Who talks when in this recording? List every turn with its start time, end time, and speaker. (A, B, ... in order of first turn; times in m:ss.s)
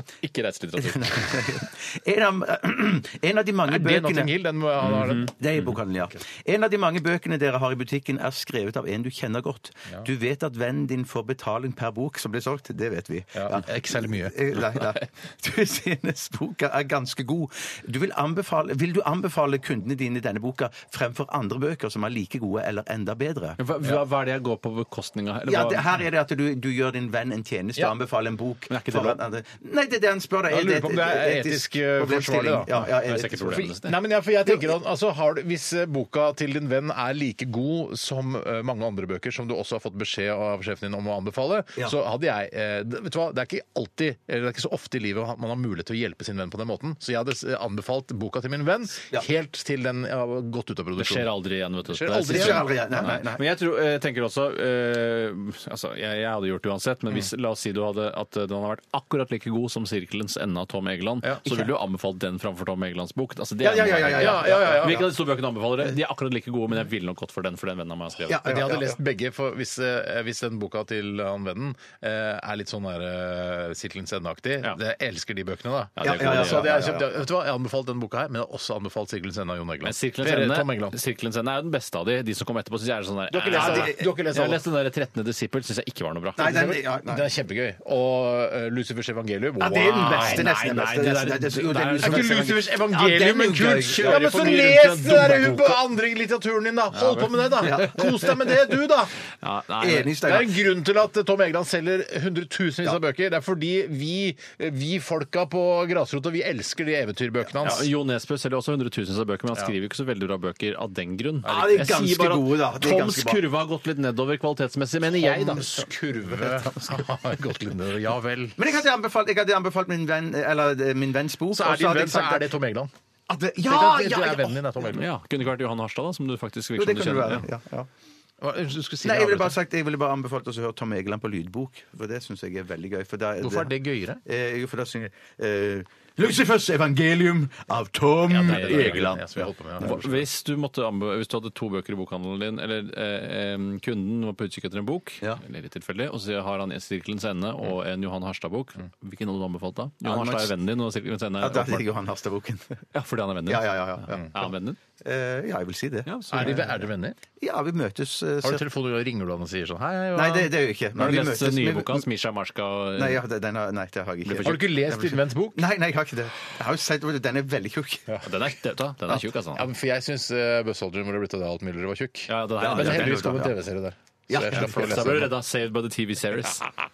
0:00.2-0:01.5 A
0:00.8-0:04.3 B
0:03.6-0:05.3 C
0:04.8-0:05.6 A
0:05.3-0:23.6 B
0:13.3-0:14.4 C
0:23.6-0:25.9 A
0:25.5-0:33.6 B
0:28.7-0:29.2 A
0:30.5-0:51.3 C
0:32.8-0:33.9 A
0:51.0-1:08.4 A
0:51.8-0:53.2 C
0:52.3-0:53.4 B
1:03.6-1:05.1 B
1:04.1-1:05.1 C
1:08.3-1:09.0 B
1:08.3-1:21.0 C
1:16.0-1:16.8 A
1:16.0-1:17.1 B
1:19.8-1:26.5 A
1:23.3-1:24.6 C
1:23.5-1:24.0 B
1:26.4-1:27.3 B
1:26.4-1:30.5 C
1:29.6-1:34.5 B
1:29.8-1:32.3 A
1:32.0-1:39.1 C
1:33.6-1:35.8 A
1:37.6-1:38.1 B
1:39.4-1:40.2 A
1:39.8-1:40.5 B
1:40.2-1:47.9 C
1:47.6-1:55.7 A
1:51.4-1:53.4 B
1:51.5-1:51.8 C
1:55.1-1:58.6 C
1:56.4-1:57.0 B
1:58.6-2:02.5 B
2:01.5-2:02.9 C
2:03.3-2:04.7 B
2:03.6-2:05.0 C
2:04.8-2:07.4 A
2:06.8-2:07.9 B
2:08.4-2:09.6 C
2:09.0-2:20.0 B
2:13.4-2:14.2 C
2:18.3-2:20.2 C
2:18.4-2:19.2 A
2:19.8-2:31.9 A
2:30.0-2:30.5 B
2:31.4-2:32.8 B
2:32.9-2:34.8 A
2:33.5-2:34.4 B
2:35.0-2:36.7 B
2:36.0-2:36.8 A
2:36.3-2:37.2 C
2:37.4-2:38.6 B
2:38.4-2:40.5 C
2:40.1-2:42.0 B
2:41.0-2:43.2 A
2:43.0-2:48.2 B
2:44.2-2:44.7 A
2:44.4-2:45.6 C
2:48.2-2:49.6 A
2:49.5-2:55.3 C
2:52.3-2:53.4 A
2:52.6-2:53.5 B
2:54.3-2:55.3 B
2:54.4-2:56.6 A